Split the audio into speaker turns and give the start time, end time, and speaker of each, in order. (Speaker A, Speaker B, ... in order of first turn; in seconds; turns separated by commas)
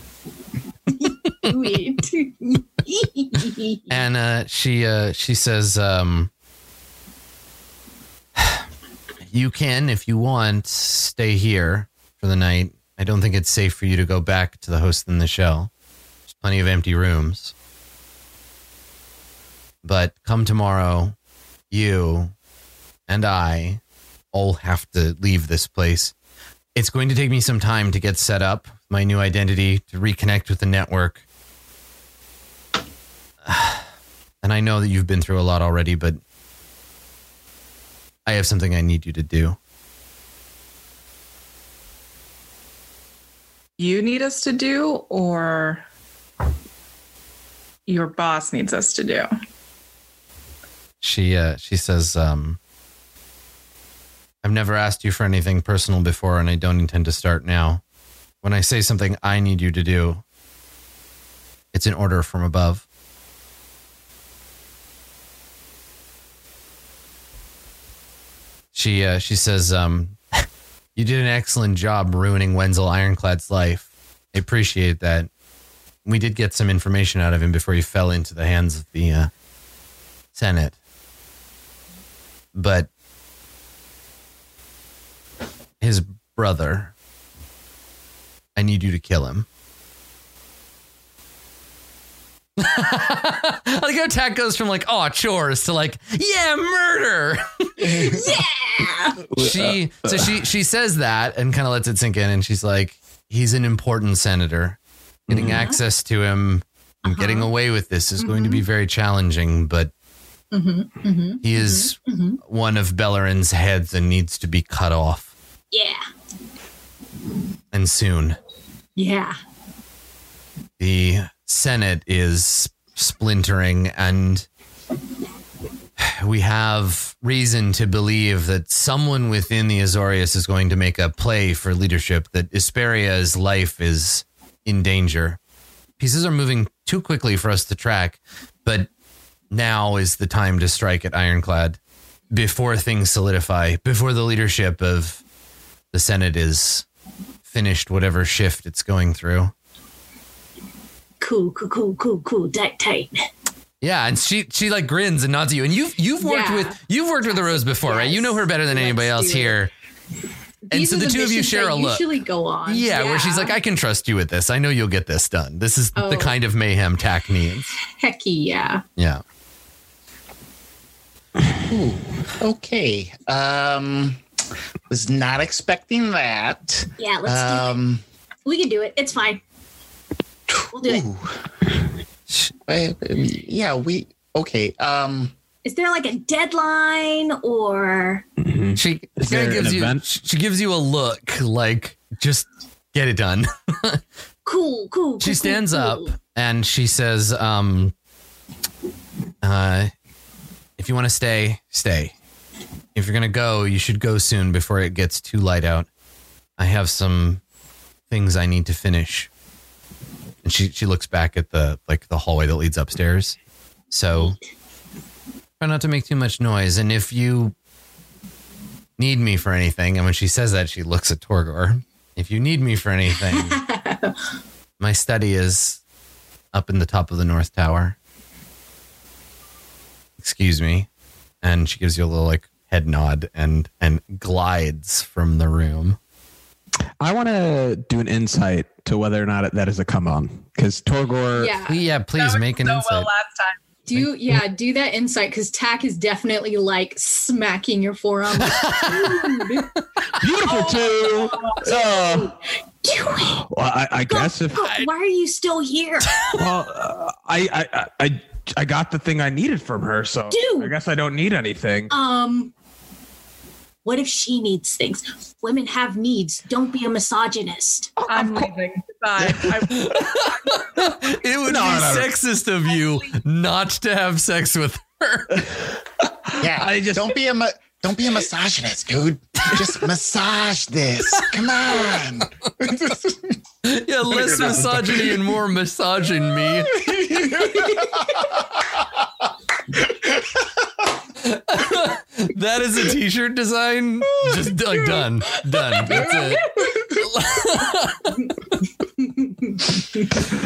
Speaker A: 1.0-4.0, Speaker B: 3.9-6.3, Speaker B: 8.4-8.6, Speaker B: 9.3-15.7, Speaker B: 16.3-17.5, Speaker B: 19.8-21.1, Speaker B: 21.7-22.3, Speaker B: 23.1-23.8, Speaker B: 24.3-26.1, Speaker B: 26.7-31.2, Speaker B: 33.4-33.9, Speaker B: 34.4-36.2, Speaker B: 38.2-39.6, Speaker C: 43.8-45.8, Speaker C: 47.9-49.3, Speaker B: 51.0-52.6, Speaker B: 54.4-57.8, Speaker B: 58.4-60.2, Speaker B: 61.7-62.8, Speaker B: 68.7-75.3, Speaker B: 76.0-79.3, Speaker B: 80.3-80.7, Speaker B: 82.5-82.9, Speaker B: 85.8-86.9, Speaker B: 88.5-89.5, Speaker B: 92.6-98.1, Speaker D: 97.8-98.3, Speaker A: 98.1-99.2, Speaker E: 99.3-100.3, Speaker B: 99.3-104.8, Speaker E: 105.3-105.6, Speaker B: 105.3-109.9, Speaker A: 105.4-105.8, Speaker A: 107.1-107.5, Speaker A: 108.2-108.6, Speaker A: 110.5-112.4, Speaker B: 111.4-115.3, Speaker A: 115.7-116.0, Speaker B: 117.7-118.4, Speaker A: 119.0-119.3, Speaker B: 120.8-124.5, Speaker B: 126.0-135.4, Speaker B: 136.0-138.9, Speaker B: 139.5-141.8, Speaker B: 142.3-145.2, Speaker B: 145.9-146.8, Speaker B: 147.4-149.5, Speaker A: 151.2-153.1, Speaker B: 153.8-159.7, Speaker A: 156.2-159.6, Speaker A: 160.6-163.6, Speaker B: 160.7-162.1, Speaker B: 162.7-167.7, Speaker A: 165.9-166.3, Speaker A: 167.9-168.8, Speaker B: 169.0-169.2, Speaker D: 171.7-174.2, Speaker D: 174.9-178.0, Speaker A: 177.0-177.8, Speaker A: 178.4-179.4, Speaker A: 180.7-181.0, Speaker D: 180.8-181.3, Speaker D: 182.7-185.3, Speaker A: 185.6-188.2, Speaker E: 188.4-190.0, Speaker B: 188.7-194.0, Speaker A: 194.4-196.1, Speaker B: 195.2-197.9, Speaker B: 199.4-199.9, Speaker B: 200.8-202.1, Speaker B: 202.9-205.9, Speaker B: 206.6-207.4, Speaker B: 208.1-209.3, Speaker B: 210.4-213.4, Speaker B: 213.9-214.3, Speaker B: 215.6-217.5, Speaker B: 219.0-223.6, Speaker A: 223.3-224.1, Speaker B: 224.8-225.8, Speaker B: 226.5-227.9, Speaker B: 230.2-230.9, Speaker B: 231.4-236.0, Speaker E: 237.0-241.6, Speaker A: 241.3-241.8, Speaker B: 241.7-243.1, Speaker C: 242.2-243.6, Speaker A: 243.9-249.7, Speaker B: 248.4-249.5, Speaker E: 250.2-252.3, Speaker C: 250.4-251.6, Speaker A: 251.1-253.4, Speaker E: 253.3-254.7, Speaker A: 254.1-256.2, Speaker E: 256.3-261.9, Speaker A: 260.3-260.7, Speaker A: 261.9-262.5, Speaker A: 263.8-268.4, Speaker E: 268.0-268.4, Speaker C: 268.1-271.0, Speaker E: 269.2-269.7, Speaker B: 269.8-275.5, Speaker E: 271.4-272.1, Speaker E: 276.3-277.2, Speaker D: 276.4-283.3, Speaker B: 283.6-286.8, Speaker D: 284.1-285.3, Speaker D: 286.6-288.9, Speaker D: 289.9-290.5, Speaker B: 291.2-298.2, Speaker A: 295.6-296.4, Speaker A: 298.1-298.3, Speaker A: 299.0-300.2